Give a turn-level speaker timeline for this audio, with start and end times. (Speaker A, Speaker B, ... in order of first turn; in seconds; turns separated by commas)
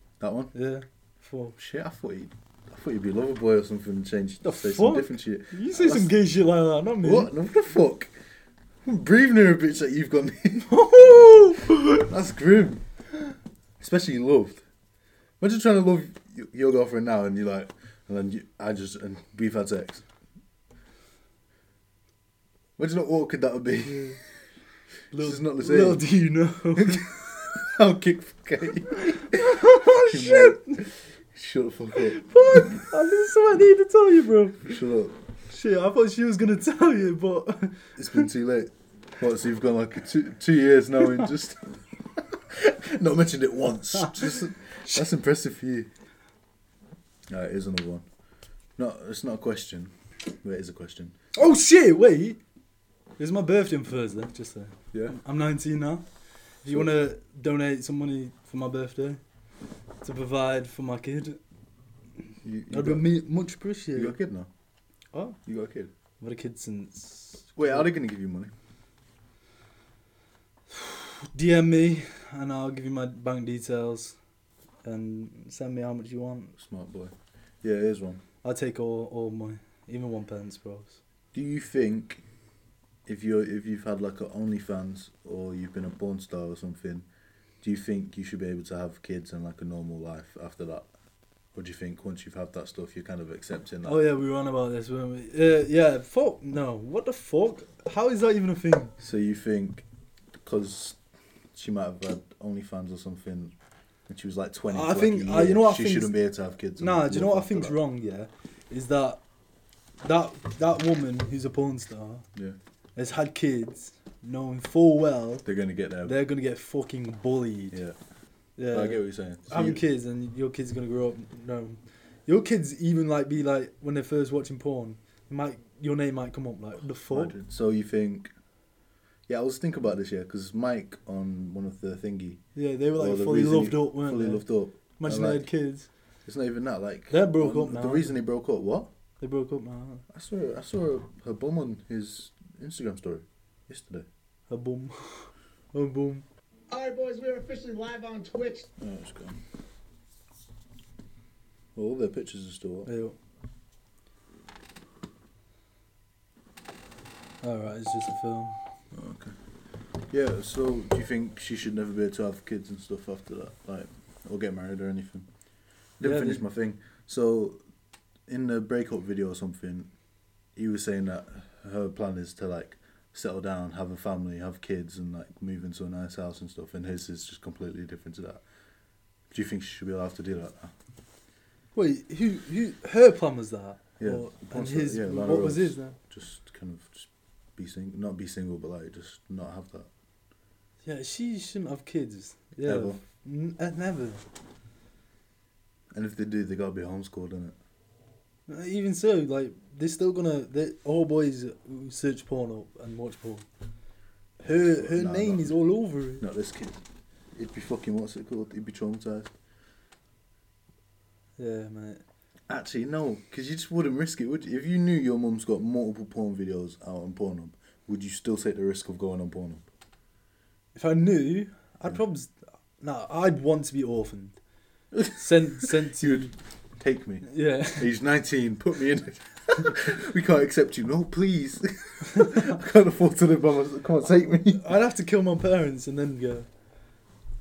Speaker A: 0.2-0.5, Speaker B: 0.5-1.5, Speaker A: 1.6-6.2, Speaker B: 4.4-7.3, Speaker A: 7.0-8.1, Speaker A: 8.8-12.8, Speaker B: 10.6-12.0, Speaker A: 13.8-14.6, Speaker A: 15.4-20.0, Speaker A: 22.8-24.2, Speaker B: 23.8-24.2, Speaker A: 25.1-26.1, Speaker B: 25.1-27.1, Speaker A: 26.8-32.8, Speaker B: 29.1-30.8, Speaker B: 32.0-34.7, Speaker A: 34.6-35.1, Speaker B: 35.5-38.3, Speaker A: 38.0-45.9, Speaker A: 47.3-48.0, Speaker A: 48.8-51.1, Speaker B: 51.3-52.4, Speaker B: 53.2-56.0, Speaker A: 54.9-55.2, Speaker B: 56.6-59.2, Speaker A: 56.6-56.9, Speaker B: 60.0-61.4, Speaker A: 62.4-63.2, Speaker B: 62.7-64.2, Speaker A: 63.9-64.5, Speaker B: 65.1-65.4, Speaker A: 65.4-65.9, Speaker B: 66.2-67.9, Speaker A: 67.5-68.5, Speaker B: 70.7-74.2, Speaker B: 74.8-76.5, Speaker A: 76.5-78.2, Speaker B: 78.4-81.0, Speaker A: 81.3-82.2, Speaker A: 83.0-87.0, Speaker A: 87.6-90.9, Speaker A: 91.5-94.1, Speaker B: 93.8-98.9, Speaker A: 99.0-99.8, Speaker A: 100.4-101.0, Speaker A: 101.5-103.5, Speaker A: 104.1-107.8, Speaker B: 104.7-106.2, Speaker B: 106.8-109.2, Speaker B: 110.0-112.2, Speaker B: 113.0-115.5, Speaker A: 115.4-116.2, Speaker B: 116.0-117.8, Speaker A: 117.7-118.0, Speaker B: 118.6-127.3, Speaker A: 118.7-119.8, Speaker A: 127.1-128.3, Speaker A: 129.3-132.4, Speaker B: 132.5-134.4, Speaker A: 132.9-135.5, Speaker B: 135.0-135.9, Speaker A: 136.2-138.9, Speaker B: 137.1-138.2, Speaker B: 139.2-140.0, Speaker A: 140.1-144.1, Speaker B: 144.5-146.2, Speaker C: 146.7-148.7, Speaker A: 148.8-149.4, Speaker A: 151.8-152.9, Speaker B: 152.8-153.2, Speaker B: 157.4-158.6, Speaker A: 158.9-159.4, Speaker A: 160.1-165.3, Speaker A: 166.0-167.6, Speaker B: 166.0-166.4, Speaker A: 168.3-169.9, Speaker A: 170.6-178.4, Speaker A: 179.3-180.7, Speaker B: 181.7-185.9, Speaker A: 184.0-189.9, Speaker B: 190.8-194.2, Speaker A: 192.6-193.0, Speaker A: 195.9-197.6, Speaker B: 198.5-203.4, Speaker B: 204.4-206.2, Speaker A: 204.4-205.6, Speaker A: 206.2-206.8, Speaker A: 207.3-209.3, Speaker B: 211.4-212.0, Speaker A: 212.5-219.7, Speaker B: 220.7-224.4, Speaker A: 224.9-234.7, Speaker B: 225.1-226.3, Speaker B: 227.2-227.9, Speaker B: 232.1-232.5, Speaker B: 234.3-236.5